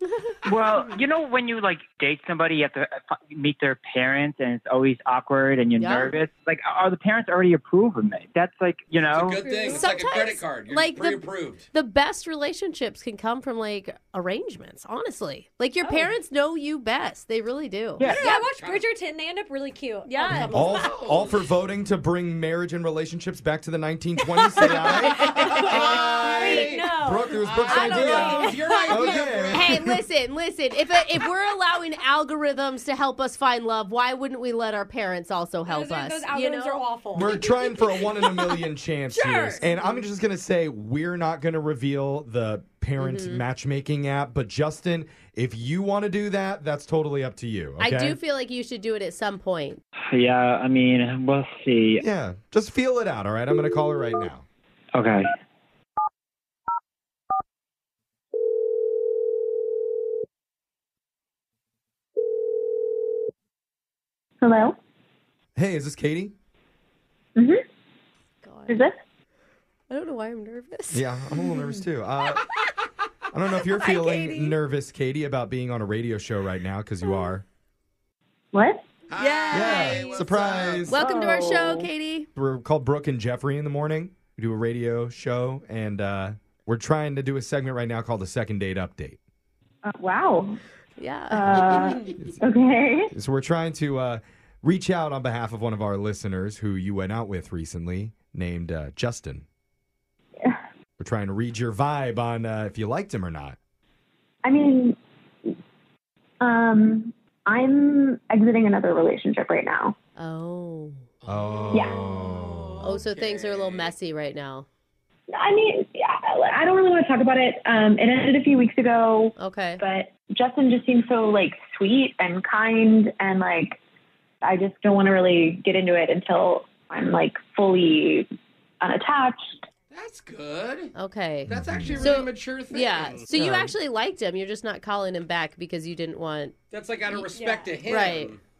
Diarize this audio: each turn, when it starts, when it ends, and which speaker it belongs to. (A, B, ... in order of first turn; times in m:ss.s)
0:00.4-0:09.8 A
0:05.8-0:06.1 B
0:09.0-0:11.7 C
0:09.5-0:18.1 B
0:18.0-0:18.3 A
0:18.0-0:18.8 C
0:18.1-0:20.9 D
0:20.0-0:20.7 B
0:20.3-0:30.0 E
0:20.7-0:21.4 C
0:24.6-0:29.3 D
0:24.8-0:29.8 C
0:26.2-0:26.6 B
0:28.1-0:28.5 B
0:29.5-0:36.8 B
0:35.7-0:38.0 D
0:37.1-0:48.2 E
0:39.1-0:40.0 B
0:43.0-0:43.4 B
0:47.8-0:49.8 B
0:50.1-0:52.0 A
0:52.0-0:54.4 E
0:54.9-0:55.3 A
1:04.4-1:04.8 F
1:05.6-1:06.3 E
1:07.4-1:07.6 F
1:08.4-1:08.8 B
1:08.7-1:09.0 F
1:09.9-1:11.0 B
1:10.9-1:12.4 E
1:13.3-1:17.4 E
1:13.6-1:14.6 B
1:18.5-1:18.9 F
1:19.1-1:21.0 C
1:19.2-1:20.0 B
1:19.5-1:21.0 E
1:20.9-1:22.3 B
1:20.9-1:21.9 F
1:22.4-1:29.2 E
1:29.9-1:30.6 F
1:31.0-1:32.1 B
1:31.3-1:33.1 F
1:33.1-1:39.4 E
1:41.0-1:43.6 E
1:44.4-1:45.6 F
1:46.4-1:50.0 F
1:50.2-1:51.0 B
1:51.2-1:53.9 C
1:51.3-1:53.0 E
1:51.7-1:52.0 F
1:52.8-1:54.7 B
1:55.3-2:03.8 F
1:59.4-1:59.8 B
2:04.4-2:08.3 F
2:08.8-2:09.6 F
2:09.9-2:10.9 C
2:11.0-2:16.6 B
2:11.5-2:13.3 C
2:11.5-2:12.1 E
2:13.3-2:13.7 E
2:16.7-2:18.4 C
2:17.3-2:17.8 D
2:17.8-2:18.3 B